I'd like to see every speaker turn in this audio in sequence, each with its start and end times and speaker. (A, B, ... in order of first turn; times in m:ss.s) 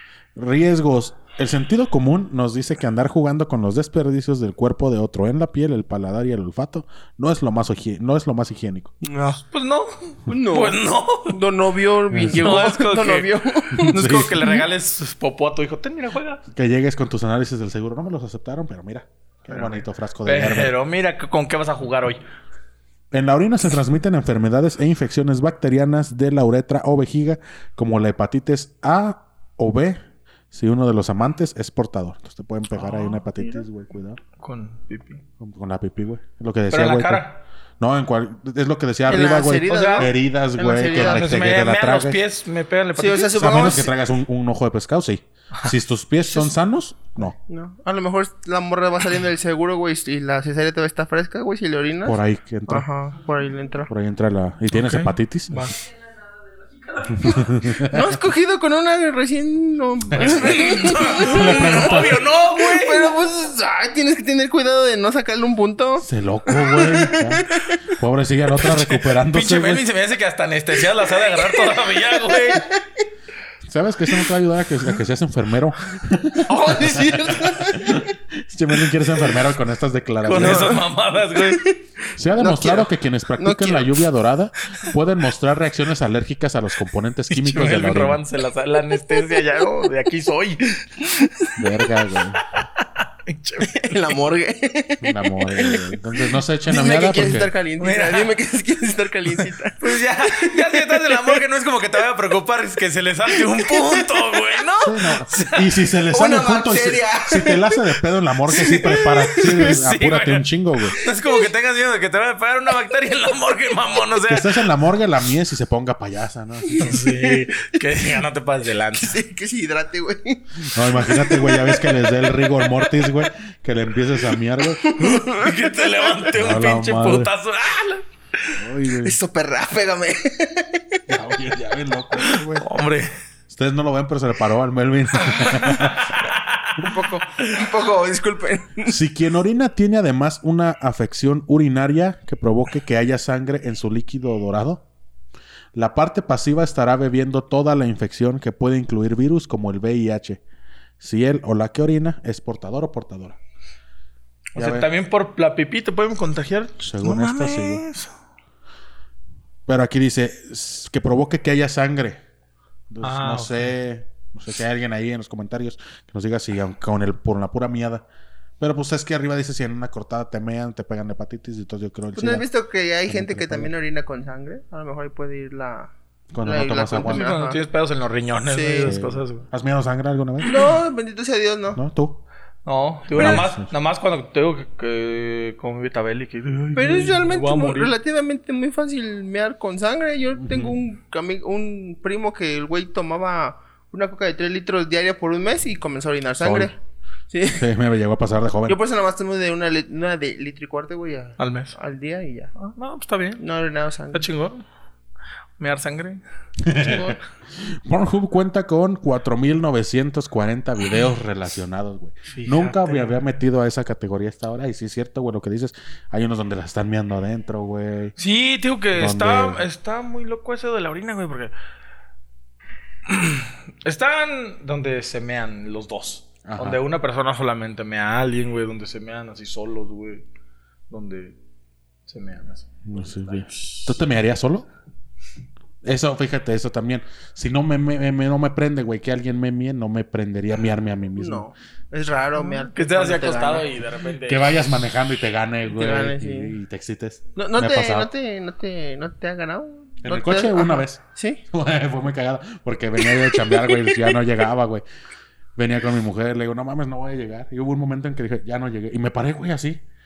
0:00.4-0:08.9 A
0:09.0-0:09.4 B
0:09.4-0:11.4 C
0:10.3-0:14.6 B
0:12.1-0:12.5 A
0:12.3-0:16.4 C
0:13.8-0:14.4 A
0:16.5-0:20.7 A
0:19.5-0:22.2 C
0:23.1-0:30.0 A
0:30.5-0:34.2 A
0:32.8-0:33.2 C
0:34.4-0:35.2 C
0:35.4-0:37.2 A
0:36.7-0:37.4 C
0:37.8-0:42.2 A
0:39.1-0:41.3 B
0:39.7-0:40.1 C
0:40.9-0:43.3 C
0:43.0-0:43.9 B
0:43.3-0:47.4 A
0:46.3-0:46.5 B
0:47.5-0:53.9 B
0:52.0-0:52.9 A
0:53.9-0:55.7 A
0:54.7-0:55.8 C
0:57.1-0:58.1 A
0:57.2-1:07.8 B
1:00.1-1:02.2 A
1:00.3-1:03.2 C
1:06.0-1:09.8 A
1:08.6-1:12.6 C
1:11.2-1:13.0 B
1:13.6-1:20.8 A
1:16.4-1:18.2 B
1:20.2-1:21.6 C
1:20.3-1:21.8 B
1:22.2-1:28.2 A
1:22.4-1:24.0 B
1:27.3-1:31.1 C
1:28.9-1:29.9 B
1:31.1-1:31.5 B
1:31.6-1:32.4 A
1:32.8-1:34.0 C
1:33.6-1:41.4 B
1:35.0-1:37.5 A
1:37.8-1:38.4 C
1:39.8-1:45.7 C
1:43.3-1:44.7 B
1:44.8-1:51.0 A
1:46.1-1:47.9 B
1:48.5-1:49.8 B
1:48.9-1:54.6 C
1:54.3-1:57.0 A
1:56.7-1:57.8 B
1:56.8-1:59.2 C
1:58.9-2:02.8 B
2:00.7-2:04.9 A
2:04.6-2:06.3 B
2:05.0-2:08.5 C
2:06.3-2:07.3 A
2:08.6-2:09.2 A
2:09.0-2:11.0 B
2:11.1-2:12.7 A
2:12.2-2:13.1 C
2:13.5-2:16.2 A
2:15.3-2:16.8 C
2:15.4-2:15.9 B
2:16.8-2:19.0 B
2:18.8-2:24.8 A
2:25.8-2:30.4 A
2:31.0-2:33.4 A
2:34.6-2:38.1 C
2:34.6-2:34.9 A
2:36.8-2:37.8 A
2:39.7-2:42.2 A
2:42.9-2:48.0 A
2:43.0-2:43.7 C
2:48.6-2:52.4 A
2:52.2-2:57.6 B
2:53.1-2:53.7 A
2:56.3-2:57.3 A
2:57.0-2:59.5 C
2:58.5-2:58.9 B
2:58.8-3:00.6 A
3:00.4-3:01.8 B
3:01.8-3:02.2 A
3:02.7-3:08.0 C
3:03.1-3:03.7 A
3:03.2-3:03.5 B
3:06.8-3:16.7 B
3:10.4-3:10.8 A
3:16.4-3:16.7 A
3:17.3-3:17.6 B
3:17.6-3:18.8 A
3:18.7-3:22.5 B
3:21.4-3:21.8 C
3:22.6-3:23.4 C
3:23.4-3:24.2 B
3:24.1-3:24.6 C
3:25.6-3:26.2 C
3:26.6-3:38.2 A
3:26.7-3:27.2 B
3:32.3-3:33.2 C
3:38.2-3:41.5 C
3:39.0-3:39.6 A
3:43.1-3:50.2 C
3:46.4-3:46.8 A
3:50.9-3:51.4 C
3:52.1-3:54.0 C
3:52.9-3:54.7 A
3:55.8-4:01.4 A
4:01.2-4:03.7 B
4:02.4-4:04.5 C
4:04.3-4:08.1 A
4:05.7-4:06.5 B
4:07.4-4:11.4 B
4:10.0-4:14.8 A
4:13.0-4:14.2 B
4:15.6-4:19.8 A